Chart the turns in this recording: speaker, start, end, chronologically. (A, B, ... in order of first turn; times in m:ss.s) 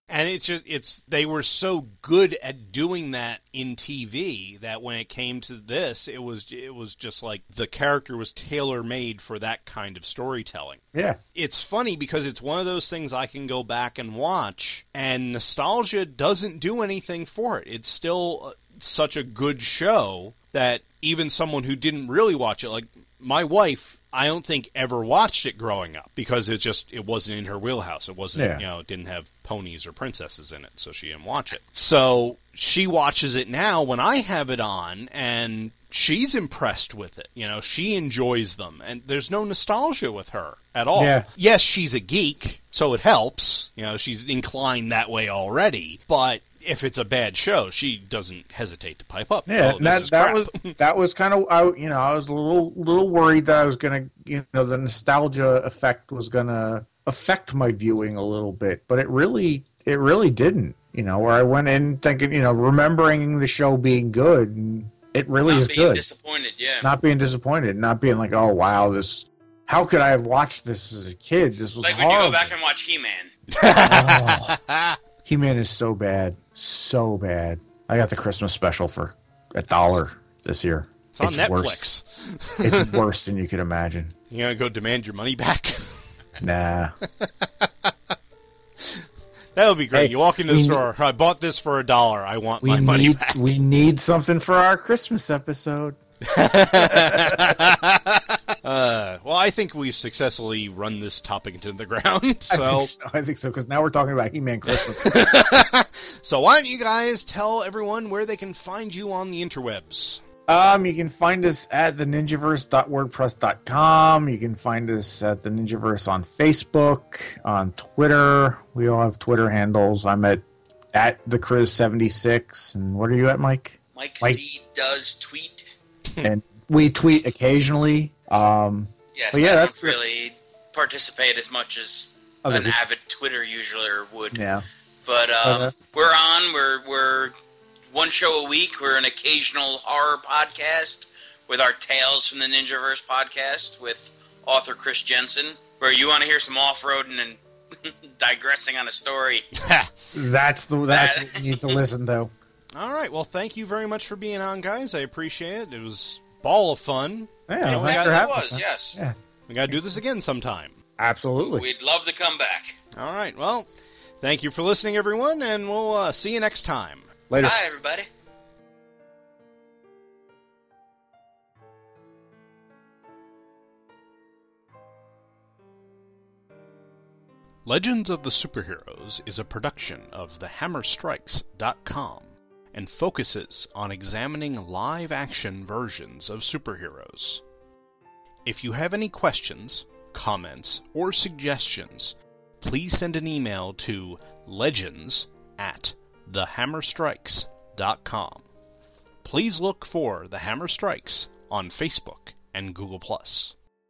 0:00.1-0:10.8 A
0:11.4-0:50.8 A
0:28.4-0:28.6 B
0:41.0-0:41.3 B
0:49.5-1:06.1 B
1:05.4-1:06.9 C
1:06.8-1:12.5 B
1:11.8-1:13.3 C
1:13.5-1:15.0 A
1:13.7-1:14.6 B
1:15.2-1:21.9 B
1:21.1-1:23.0 A
1:22.6-1:24.1 B
1:24.3-1:26.0 A
1:26.4-1:26.9 B
1:27.2-1:27.9 A
1:28.8-1:33.5 A
1:29.9-1:30.9 B
1:32.6-1:36.0 B
1:36.2-1:42.9 A
1:36.7-1:37.5 B
1:42.5-1:45.2 B
1:44.6-1:50.2 A
1:50.5-2:00.4 B
2:00.9-2:04.4 B
2:04.0-2:05.6 C
2:06.2-2:10.0 B
2:09.2-2:14.4 C
2:12.4-2:12.8 B
2:14.3-2:14.6 B
2:15.1-2:17.3 C
2:15.4-2:15.8 B
2:17.9-2:29.5 C
2:29.6-2:29.9 A
2:30.1-2:32.3 B
2:30.9-2:31.8 C
2:32.7-2:38.3 A
2:37.5-2:39.2 B
2:37.7-2:39.0 C
2:39.5-2:40.8 A
2:39.7-2:40.0 B
2:41.0-2:41.7 B
2:41.4-2:42.8 C
2:42.9-2:43.7 A
2:44.2-2:47.1 A
2:47.3-2:47.6 B
2:47.4-2:48.1 C
2:57.7-3:07.4 A
3:08.5-3:18.4 A
3:19.2-3:23.5 A